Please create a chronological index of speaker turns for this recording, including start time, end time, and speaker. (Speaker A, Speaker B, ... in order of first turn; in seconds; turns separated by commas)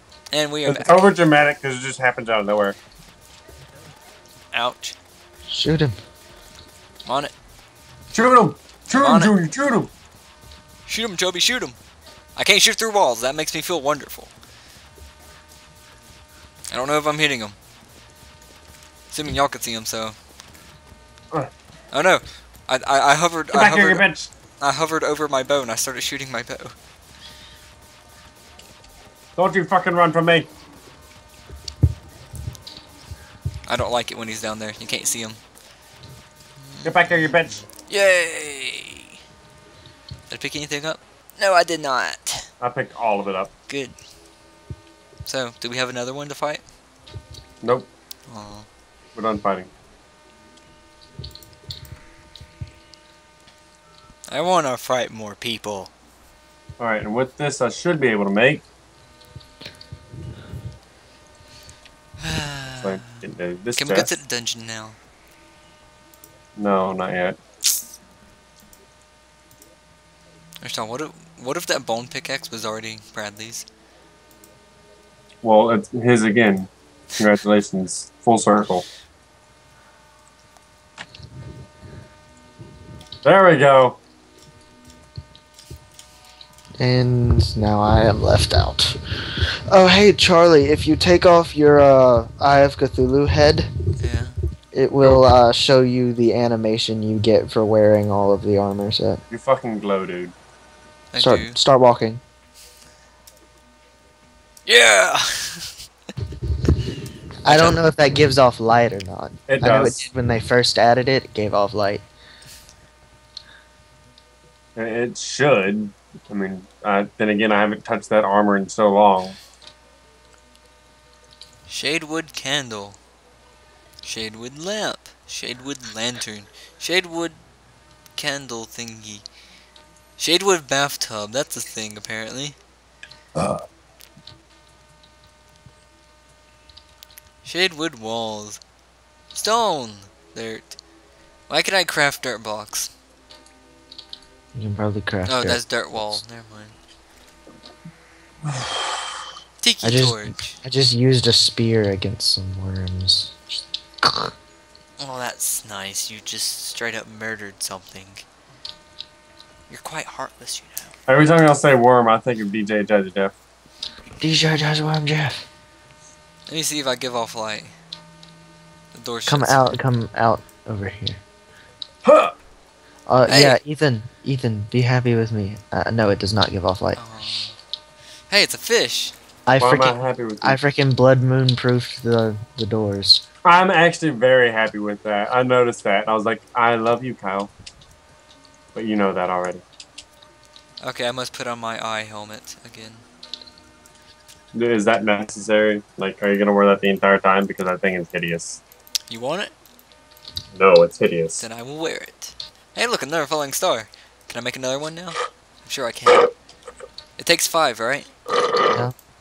Speaker A: 0.3-1.1, Speaker B: 0.6-2.8, Speaker A: 4.5-5.0, Speaker C: 5.5-6.0, Speaker A: 7.0-7.3, Speaker B: 8.1-9.9, Speaker A: 8.9-9.3, Speaker A: 10.8-11.8, Speaker A: 12.3-14.3, Speaker A: 16.7-17.6, Speaker A: 19.1-20.1, Speaker A: 21.9-24.1, Speaker B: 23.5-24.3, Speaker A: 24.6-26.8, Speaker B: 29.4-30.5, Speaker A: 33.6-35.4, Speaker A: 36.6-39.1, Speaker B: 36.8-37.6, Speaker A: 40.3-42.5, Speaker B: 42.6-43.5, Speaker A: 43.7-43.9, Speaker A: 45.2-46.6, Speaker B: 47.6-47.9, Speaker A: 48.3-48.7, Speaker B: 49.1-49.7, Speaker A: 54.3-55.9, Speaker B: 56.8-58.6, Speaker A: 62.2-63.2, Speaker B: 62.8-64.1, Speaker A: 63.8-65.0, Speaker B: 66.6-67.4, Speaker A: 70.6-73.7, Speaker B: 75.4-78.8, Speaker B: 83.2-84.0, Speaker C: 86.8-89.0, Speaker C: 89.7-93.7, Speaker A: 94.0-94.4, Speaker C: 94.7-99.2, Speaker B: 99.3-100.3, Speaker A: 101.1-101.6, Speaker C: 101.2-102.2, Speaker A: 104.7-105.7, Speaker A: 107.4-107.8, Speaker C: 107.4-112.0, Speaker B: 109.5-110.0, Speaker B: 114.8-119.4, Speaker A: 121.7-123.0, Speaker A: 124.0-127.4, Speaker A: 128.1-129.2, Speaker A: 130.2-132.6, Speaker A: 137.4-138.6, Speaker A: 139.3-140.8, Speaker A: 141.5-142.9, Speaker C: 144.5-146.2, Speaker A: 145.2-146.8, Speaker B: 148.5-149.0, Speaker A: 149.6-150.6, Speaker C: 149.8-153.3, Speaker C: 154.0-154.3, Speaker A: 155.0-158.2, Speaker A: 159.7-160.9, Speaker B: 161.1-163.3, Speaker C: 164.2-165.4, Speaker A: 166.5-167.7, Speaker A: 168.9-169.7, Speaker C: 169.3-171.2, Speaker B: 172.0-172.3, Speaker C: 173.1-177.1, Speaker A: 173.3-173.6, Speaker A: 176.9-177.6, Speaker A: 178.3-179.1, Speaker C: 179.4-183.2, Speaker B: 179.6-180.6, Speaker B: 183.4-187.5, Speaker B: 188.7-189.6, Speaker A: 190.8-193.0, Speaker B: 194.5-198.6, Speaker A: 199.1-199.5, Speaker B: 200.5-201.4, Speaker A: 201.4-206.3, Speaker A: 207.2-208.1